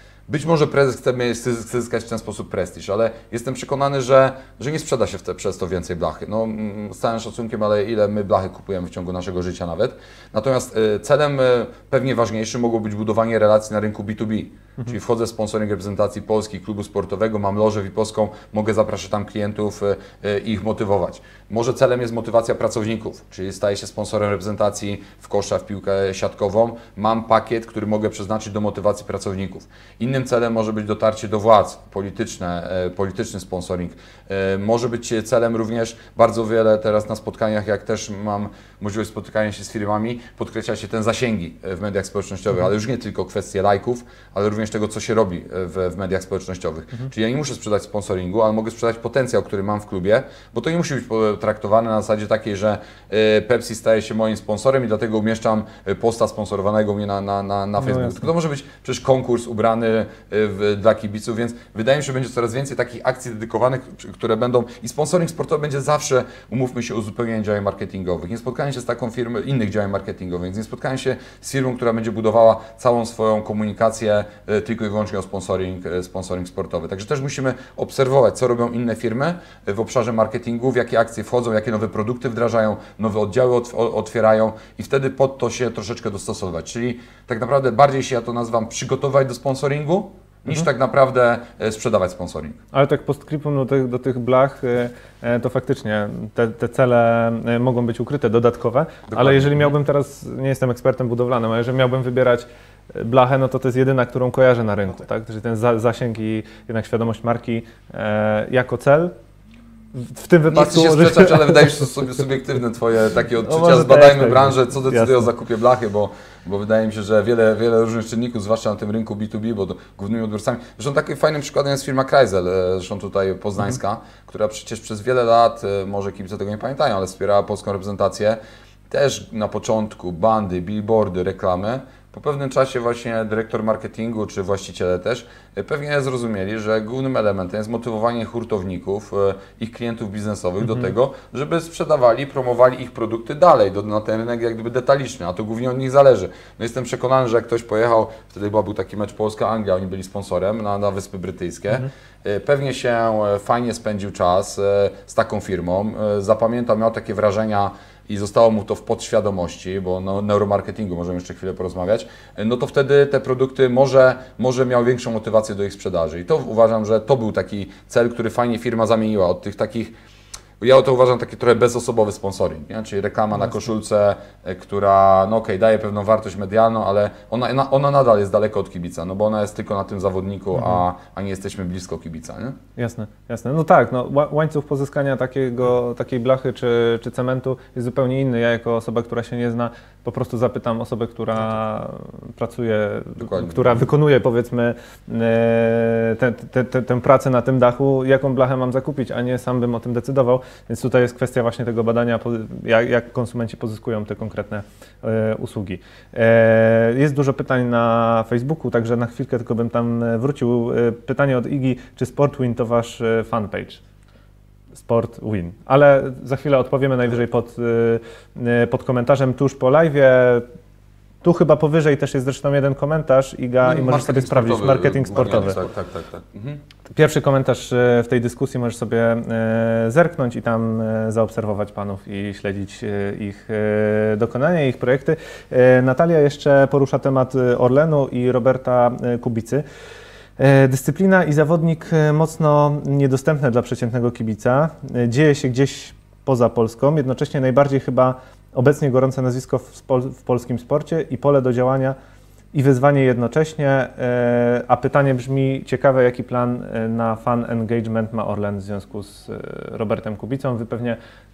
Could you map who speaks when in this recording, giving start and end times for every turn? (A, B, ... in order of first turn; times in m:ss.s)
0:00.3-1:32.6 A
0:57.8-0:58.2 B
1:32.7-1:49.1 B
1:39.1-1:39.6 A
1:49.9-1:51.8 B
1:50.5-2:08.4 A
1:53.4-1:55.2 B
2:08.9-2:49.9 A
2:50.6-3:02.6 A
3:02.8-3:33.8 B
3:13.2-3:13.8 A
3:34.8-3:40.4 B
3:41.2-3:45.6 B
3:43.6-3:46.6 A
3:46.9-3:59.6 B
4:00.4-4:12.0 B
4:12.5-4:21.0 B